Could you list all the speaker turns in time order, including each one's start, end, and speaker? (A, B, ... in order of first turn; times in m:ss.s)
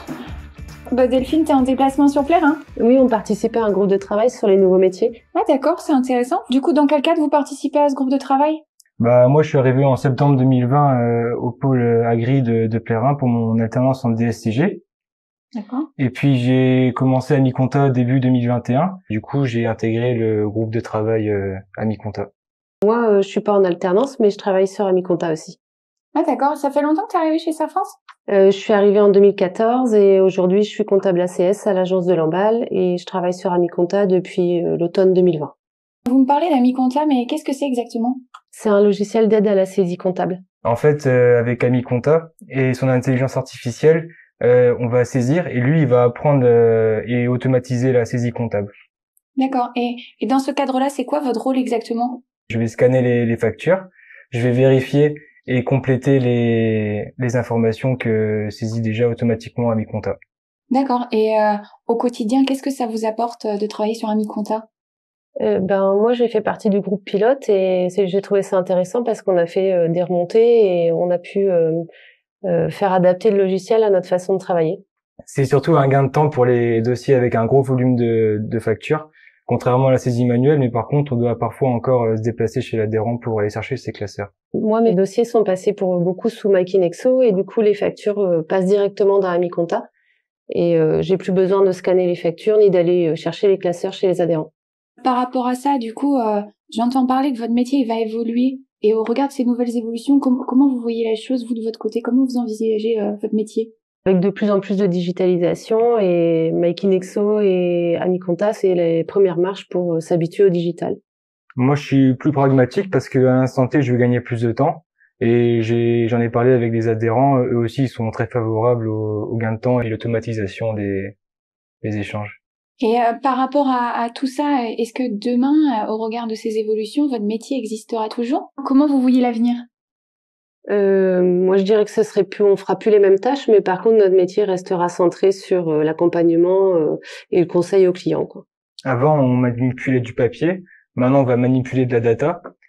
0:00.9-0:02.6 A
0:02.8-0:05.2 B
0:05.3-0:08.6 A
0:09.0-0:14.8 C
0:15.6-0:15.9 A
0:16.0-0:22.3 C
0:22.8-0:25.6 B
0:26.1-0:28.0 A
0:28.3-0:35.5 B
0:36.1-0:38.2 A
0:38.5-0:40.4 B
0:40.6-0:48.7 C
0:49.4-0:52.2 A
0:52.5-1:00.2 C
1:00.7-1:04.7 A
1:05.4-1:11.8 B
1:12.5-1:14.8 B
1:15.3-1:24.3 C
1:24.6-1:29.9 B
1:30.5-1:34.5 B
1:35.0-1:43.7 A
1:44.1-1:51.0 B
1:51.6-2:01.2 C
2:01.8-2:02.4 C
2:02.8-2:09.7 A
2:10.7-2:18.4 B
2:18.8-2:22.4 C